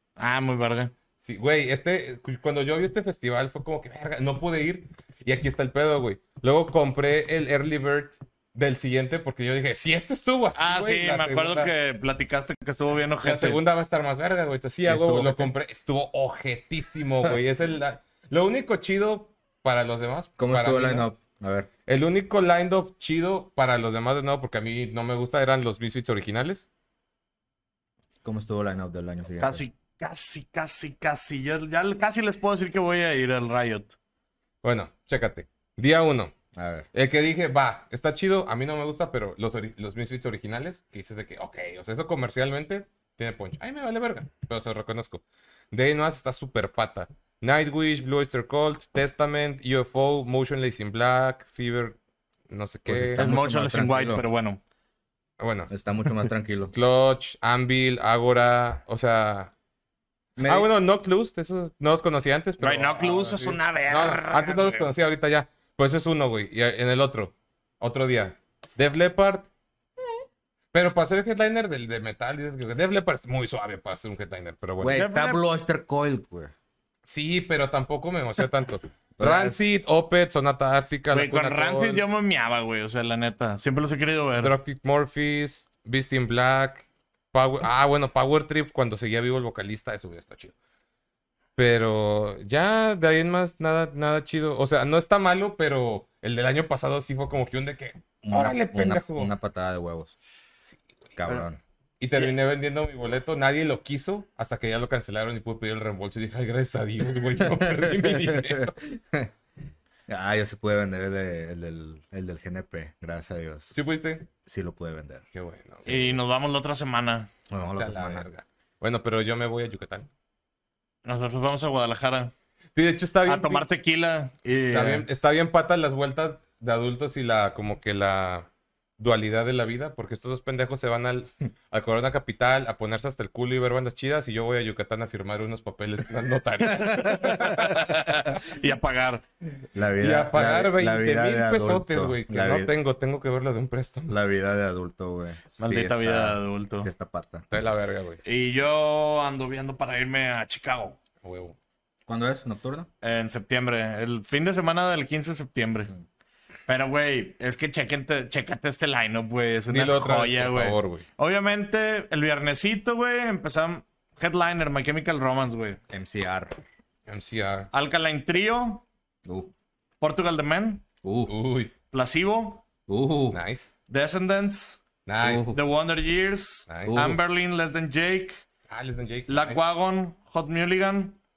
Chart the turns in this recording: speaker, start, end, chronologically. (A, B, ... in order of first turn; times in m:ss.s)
0:00.2-0:00.9 A
0:01.2-0:11.7 B
0:10.6-0:13.6 A
0:13.2-0:21.1 B
0:14.8-0:15.5 C
0:20.4-0:21.7 C
0:21.9-0:26.7 B
0:28.2-0:29.6 C
0:29.4-0:33.9 A
0:34.6-0:36.3 B
0:36.5-0:36.9 C
0:36.9-0:52.0 B
0:52.5-0:53.3 B
0:52.9-0:54.2 C
0:53.2-0:54.6 A
0:55.4-0:55.7 B
0:55.7-0:56.7 C
0:56.7-0:59.5 B
1:00.4-1:00.7 C
1:00.4-1:09.5 B
1:02.6-1:04.9 A
1:10.7-1:15.0 B
1:14.8-1:16.5 C
1:14.9-1:15.4 A
1:17.0-1:22.0 B
1:19.2-1:19.6 C
1:21.1-1:24.5 A
1:24.4-1:30.5 B
1:31.6-1:39.3 B
1:38.2-1:40.1 C
1:40.7-1:41.4 B
1:41.2-1:41.6 C
1:42.0-1:48.8 B
1:47.4-1:49.3 C
1:50.1-1:53.8 C
1:53.7-1:54.2 B
1:54.4-1:55.2 C
1:55.3-1:56.2 B
1:55.8-1:57.3 A
1:57.5-1:58.3 C
1:57.7-2:00.1 B
2:01.0-2:02.3 A
2:02.7-2:03.7 B
2:03.2-2:05.0 A
2:04.7-2:08.5 B
2:09.0-2:18.2 B
2:16.8-2:19.2 A
2:19.7-2:22.7 C
2:20.0-2:24.1 B
2:24.1-2:27.4 C
2:25.6-2:26.9 A
2:27.5-2:28.2 B
2:28.2-2:31.0 A
2:31.2-2:31.6 B
2:32.1-2:32.9 C
2:33.0-2:35.9 A
2:36.7-2:45.8 A
2:39.7-2:41.0 B
2:45.9-2:46.6 C
2:47.1-2:47.7 B
2:47.7-2:48.8 A
2:49.2-2:49.5 C
2:50.0-2:50.8 A
2:51.0-2:51.3 C
2:51.3-2:51.7 B
2:51.9-2:52.6 A
2:52.9-2:53.4 C
2:53.3-2:53.7 B
2:53.9-2:54.8 A
2:55.0-2:55.6 B
2:55.2-2:55.6 C
2:55.5-2:58.4 A
2:56.7-2:57.0 B
2:56.8-2:57.2 C
2:58.7-2:59.6 B
2:59.3-3:01.2 A